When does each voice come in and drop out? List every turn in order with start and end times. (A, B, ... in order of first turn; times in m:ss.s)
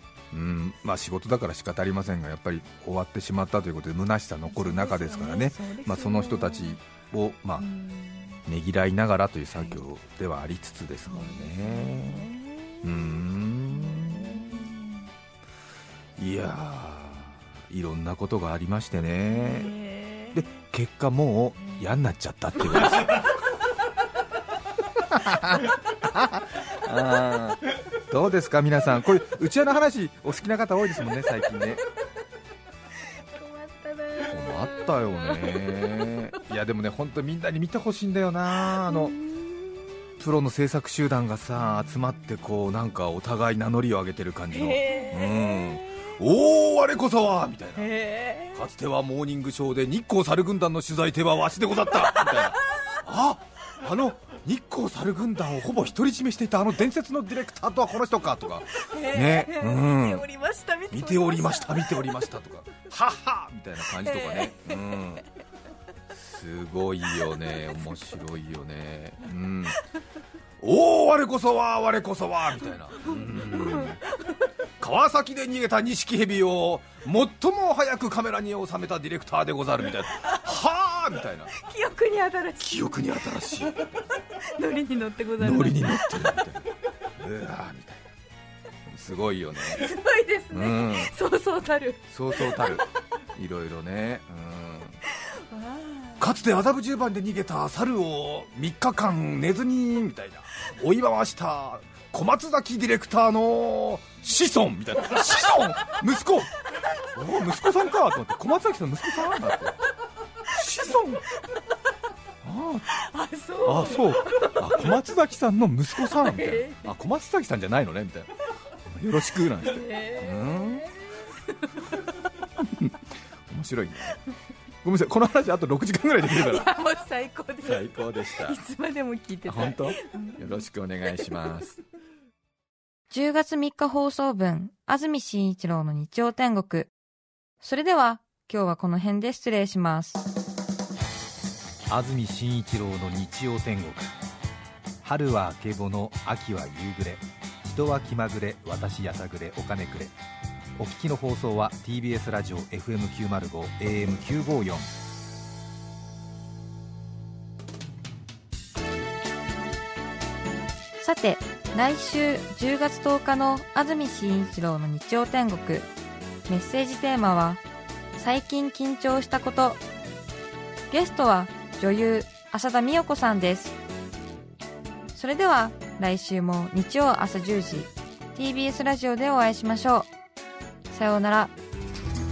0:00.3-0:07.7 A
0:04.5-0:06.8 B
0:07.6-0:08.4 B
0:08.5-0:12.3 A
0:09.5-0:09.8 B
0:11.1-0:15.1 B
0:12.8-0:14.6 A
0:16.2-0:19.7 A
0:19.3-0:20.6 B
0:20.3-0:23.4 A
0:21.6-0:21.9 B
0:25.0-0:31.8 A
0:33.1-0:36.2 B
0:34.3-0:39.2 A
0:38.7-0:40.1 B
0:40.2-0:47.9 A
0:44.5-0:46.1 B
0:47.8-0:48.6 B
0:48.5-1:00.3 A
0:52.2-0:53.0 B
0:58.8-1:02.2 B
1:00.9-1:05.2 A
1:04.0-1:05.0 B
1:06.1-1:09.8 A
1:10.6-1:14.0 A
1:13.0-1:14.5 B
1:14.8-1:21.5 A
1:21.6-1:26.3 B
1:22.6-1:24.0 A
1:25.4-1:28.0 A
1:28.9-1:29.9 A
1:29.7-1:32.8 B
1:30.5-1:31.1 A
1:32.1-1:35.0 A
1:35.2-1:36.3 B
1:36.2-1:46.6 A
1:47.1-1:49.8 A
1:50.5-1:51.2 A
1:52.4-1:52.9 A
1:52.9-1:54.9 B
1:53.6-1:58.3 A
1:56.1-1:56.9 B
1:58.8-2:00.9 A
1:59.6-2:02.2 B
2:02.6-2:04.2 A
2:04.8-2:06.7 A
2:06.3-2:10.6 B
2:07.6-2:08.6 A
2:09.5-2:11.7 A
2:11.2-2:11.5 B
2:13.1-2:16.9 C
2:17.6-2:20.2 C
2:21.9-2:24.1 A
2:25.0-2:30.1 A
2:30.8-2:34.9 A
2:41.0-2:45.9 C
2:46.5-2:47.6 C
2:48.2-2:49.8 C
2:50.9-2:53.8 C
2:55.2-3:00.1 C
3:00.9-3:01.5 C